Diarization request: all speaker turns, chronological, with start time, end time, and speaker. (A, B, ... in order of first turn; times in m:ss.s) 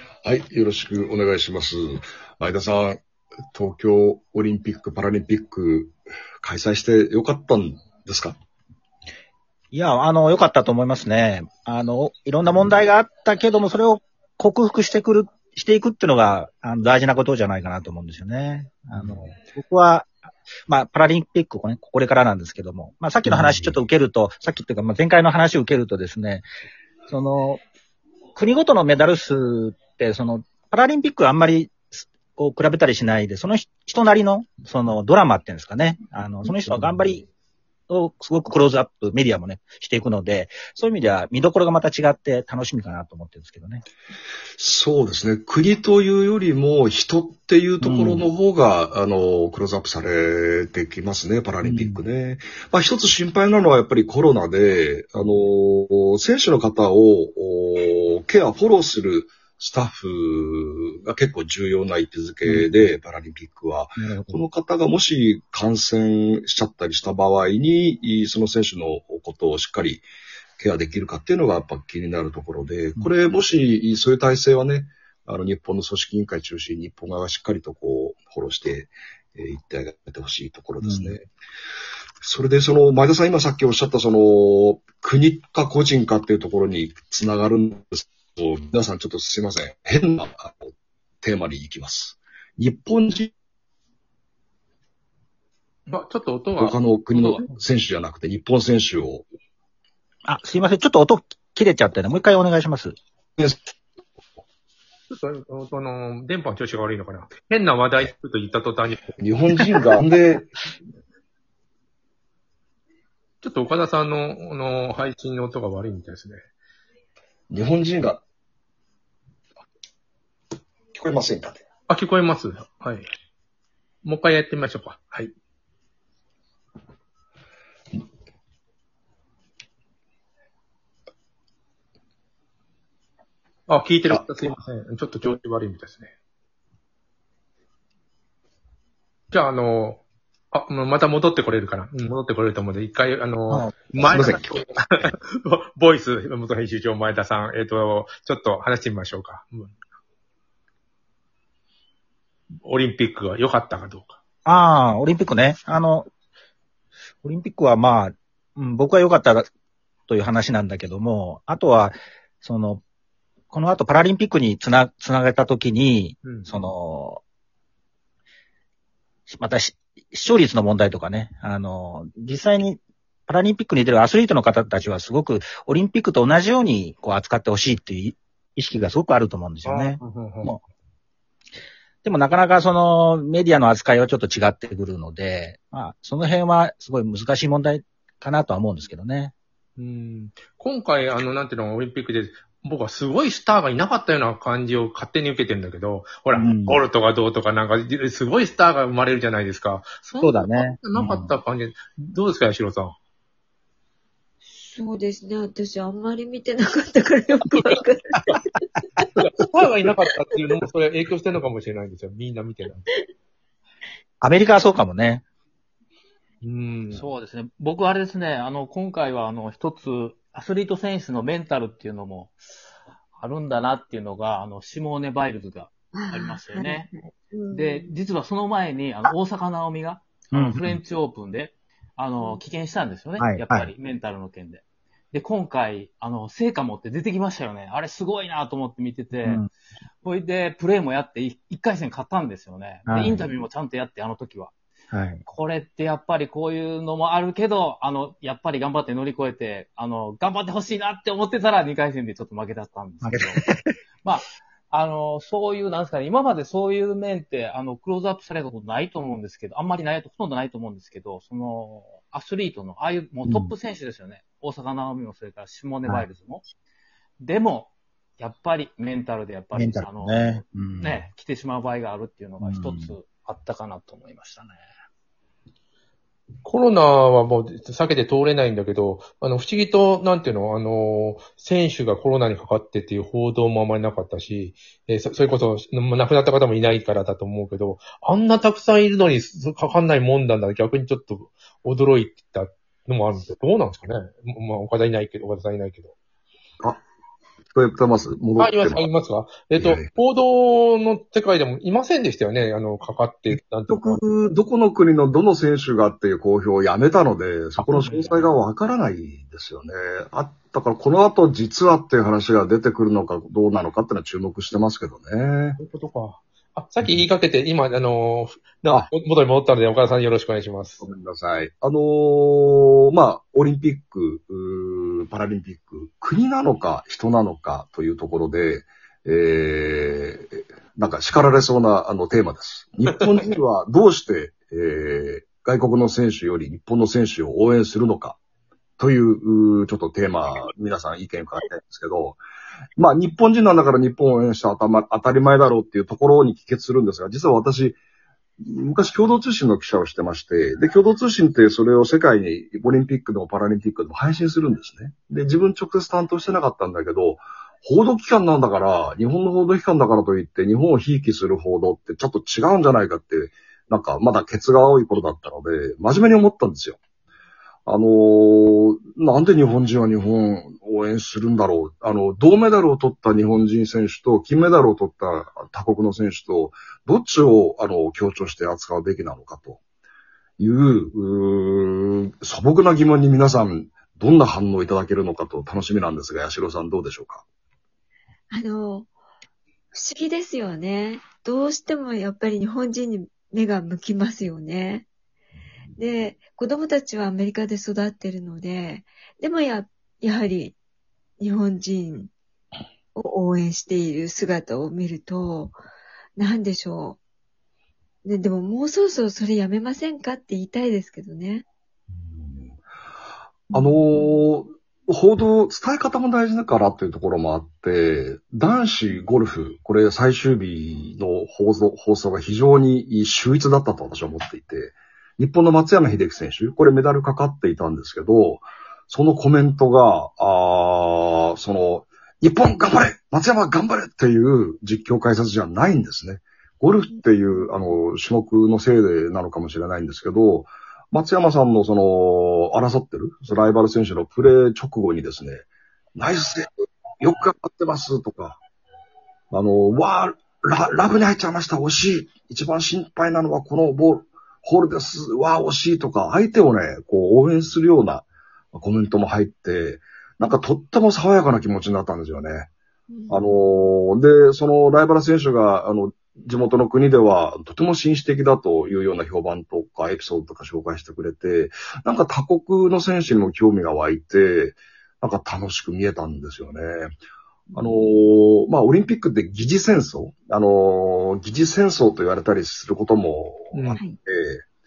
0:00.2-0:03.0 A
0:03.5-0:08.4 A
0:09.7-0:20.2 B
0:20.7-0:26.4 B
0:23.3-0:23.6 A
0:27.1-0:27.6 B
0:28.4-0:37.3 B
0:37.9-0:43.8 B
0:44.6-1:10.0 A
0:47.8-0:48.3 B
0:51.6-0:52.0 B
0:55.2-0:55.4 B
1:02.4-1:02.9 B
1:04.0-1:04.4 B
1:10.6-1:21.2 A
1:20.8-1:21.1 B
1:22.2-1:33.3 A
1:35.9-1:37.4 C
1:36.6-1:39.2 A
1:40.3-1:43.0 B
1:43.4-1:43.7 A
1:45.1-1:49.2 C
1:49.2-1:50.5 A
1:53.4-1:56.4 C
1:57.5-1:58.2 A
2:00.9-2:01.6 A
2:01.9-2:03.1 C
2:04.0-2:05.3 C
2:13.7-2:16.1 C
2:19.3-2:29.7 C
2:23.5-2:24.3 B
2:24.1-2:24.6 A
2:32.6-2:34.2 C
2:34.5-2:36.1 B
2:37.2-2:39.5 B
2:40.1-2:42.8 B
2:43.5-2:47.2 B
2:46.2-2:46.5 C
2:49.3-3:00.6 B
2:59.6-3:00.6 C
3:02.0-3:09.3 B
3:09.8-3:23.0 C
3:16.3-3:16.8 B
3:20.1-3:20.4 D
3:20.2-3:21.4 B
3:24.5-3:28.6 D
3:27.5-3:27.8 C
3:29.2-3:32.9 C
3:34.2-3:35.2 B
3:36.4-3:37.1 C
3:36.9-3:42.4 E
3:43.2-3:46.9 E
3:45.9-3:48.0 D
3:47.5-3:59.4 E
3:50.3-3:50.8 B
3:53.2-3:53.7 B
3:59.2-3:59.5 B
4:00.0-4:04.5 E
4:02.9-4:03.2 B
4:04.9-4:05.2 B
4:05.2-4:13.4 E
4:13.0-4:13.8 B
4:14.0-4:26.4 E
4:23.2-4:23.5 B
4:27.2-4:34.6 E
4:29.5-4:31.1 B
4:32.4-4:32.9 B
4:36.4-4:55.9 C
4:57.5-4:58.9 A
4:58.4-5:04.0 C
4:59.6-4:59.9 A
5:03.3-5:15.6 A
5:07.6-5:08.2 C
5:07.8-5:08.2 E
5:15.6-5:20.8 C
5:20.8-5:38.2 A
5:38.8-5:42.2 A
5:42.8-5:47.8 A
5:48.4-6:06.8 A
6:07.7-6:19.6 A
6:20.4-6:27.2 A
6:28.3-6:28.9 D
6:29.7-6:34.9 D
6:35.8-6:40.6 D
6:41.2-6:42.1 D
6:42.9-6:45.6 D
6:46.2-6:47.0 D
6:48.0-6:51.4 D
6:51.9-6:52.6 A
6:53.5-6:54.2 D
6:53.5-7:28.4 A
7:16.9-7:17.7 D
7:29.3-7:42.5 A
7:42.9-7:43.7 D
7:43.1-7:57.0 A
7:57.6-8:04.4 A
8:03.5-8:03.8 C